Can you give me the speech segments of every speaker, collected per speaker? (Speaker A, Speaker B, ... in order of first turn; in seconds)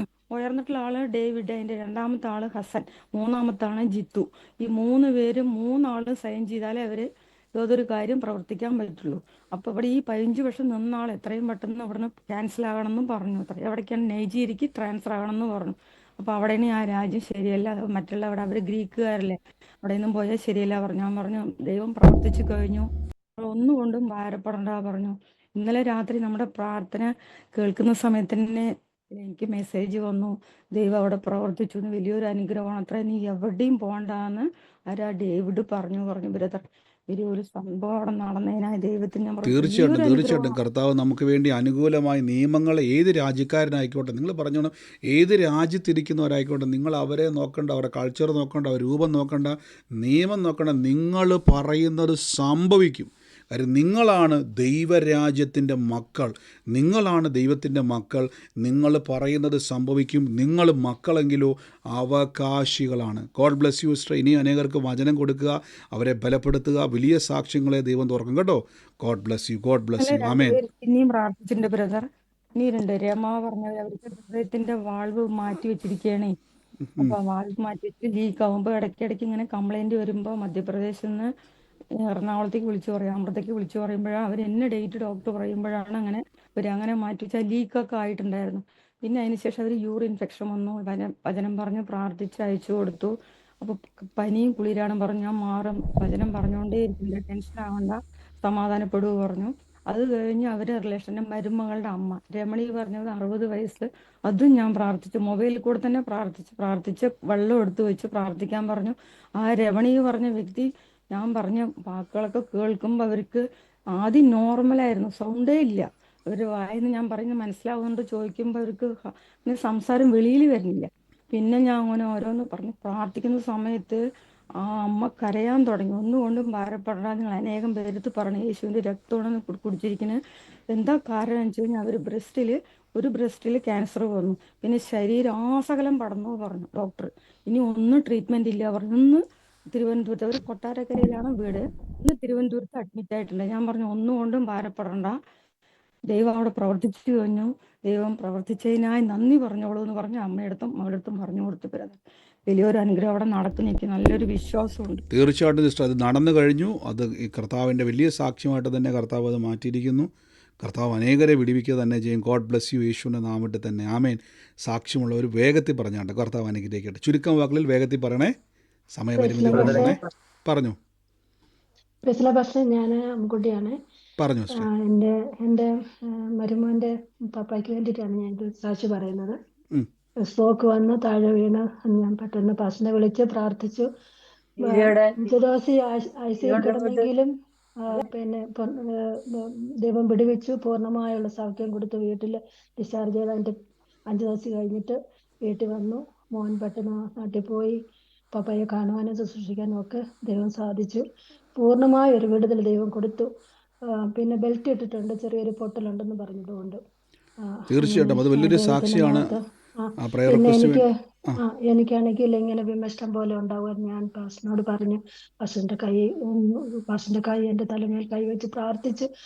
Speaker A: 0.3-40.6, 70.0-76.4, 77.0-81.3, 82.0-113.4, 113.9-124.0, 124.6-145.2, 146.1-155.0
Speaker B: 39.5-70.6, 76.8-77.1, 155.1-160.1, 160.6-168.3, 168.9-170.8, 174.2-174.6, 207.7-209.3, 210.0-211.4
Speaker C: 169.2-170.0, 172.1-173.8, 174.5-175.7, 176.4-179.4, 180.2-183.9, 184.6-187.3, 187.9-193.6, 194.1-197.8, 198.3-201.0, 201.6-203.3, 204.1-206.8, 207.4-219.1